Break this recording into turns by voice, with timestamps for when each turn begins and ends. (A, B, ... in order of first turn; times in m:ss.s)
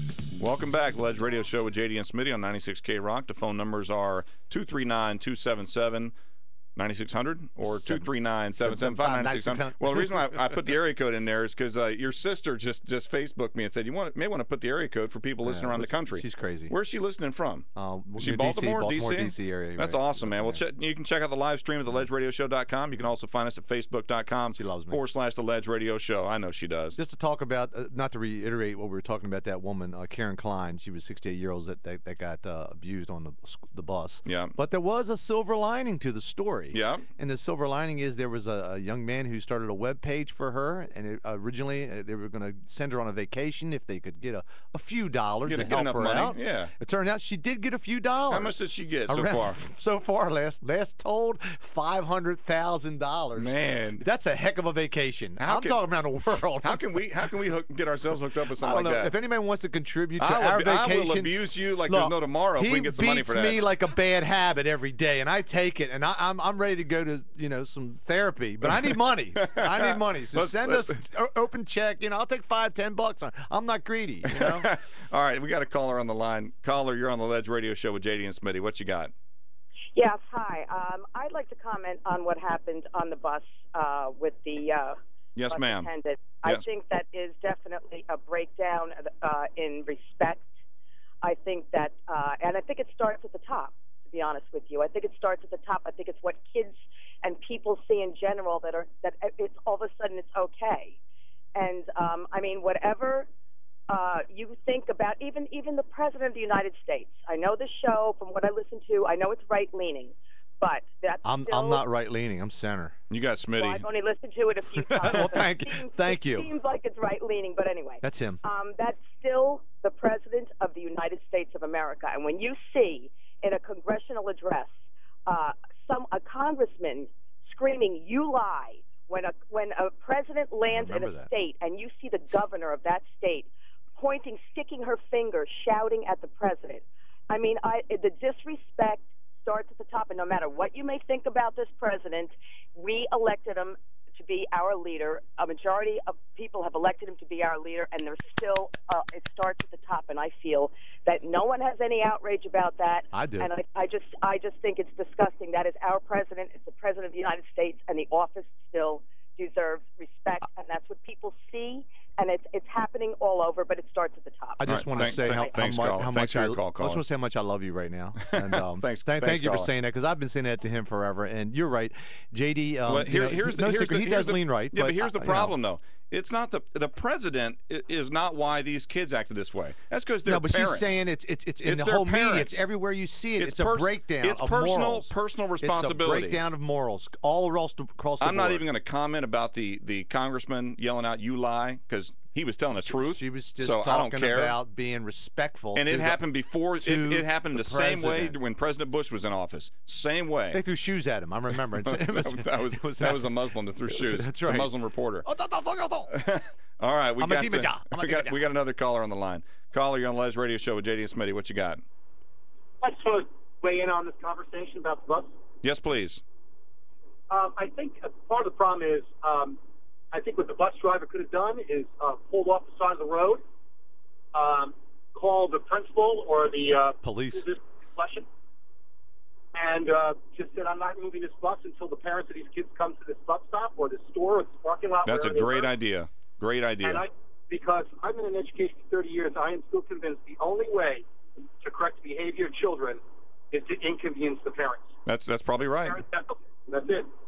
0:00.4-0:06.1 A
0:06.8-0:17.6 A
0:07.6-0:08.0 B
0:08.6-0:10.1 B
0:15.4-0:16.7 B
0:17.8-0:20.6 B
0:18.2-0:27.0 A
0:24.5-0:25.0 B
0:27.0-0:48.6 B
0:34.2-0:34.5 A
0:36.7-0:37.0 A
0:45.4-0:46.7 A
0:48.3-0:49.6 A
0:49.1-0:56.8 B
0:53.3-0:54.0 A
0:55.4-0:55.8 A
0:56.6-0:59.1 A
0:58.5-1:14.7 B
1:00.2-1:03.6 A
1:09.4-1:10.9 A
1:14.3-1:19.1 A
1:19.9-1:25.0 C
1:25.4-1:25.9 A
1:25.5-1:30.4 C
1:31.2-1:41.0 C
1:41.5-1:43.3 C
1:43.9-1:51.8 C
1:51.2-1:52.9 B
1:53.1-1:53.8 A
1:53.6-2:04.7 C
1:54.8-1:56.5 B
1:58.0-1:58.4 B
2:05.2-2:45.5 C
2:10.6-2:11.3 B
2:33.1-2:33.5 B
2:44.6-2:55.5 B
2:44.6-2:47.0 A
2:48.3-2:49.7 A
2:52.8-3:01.0 A
3:00.2-3:08.6 B
3:01.6-3:02.6 A
3:03.4-3:06.4 A
3:08.2-3:14.6 A
3:12.7-3:16.2 B
3:15.7-3:20.6 A
3:16.8-3:18.4 B
3:20.5-3:23.3 B
3:21.7-3:25.2 A
3:23.9-3:24.7 B
3:25.2-3:26.1 B
3:26.1-3:31.8 A
3:27.2-3:28.4 B
3:32.8-3:35.3 D
3:35.6-3:36.2 A
3:37.3-3:39.6 D
3:40.1-3:43.4 D
3:44.3-3:48.2 D
3:47.0-3:47.4 B
3:49.5-3:55.7 D
3:55.0-3:57.0 A
3:56.8-4:01.0 D
4:01.6-4:04.9 D
4:05.0-4:06.0 A
4:05.8-4:07.1 D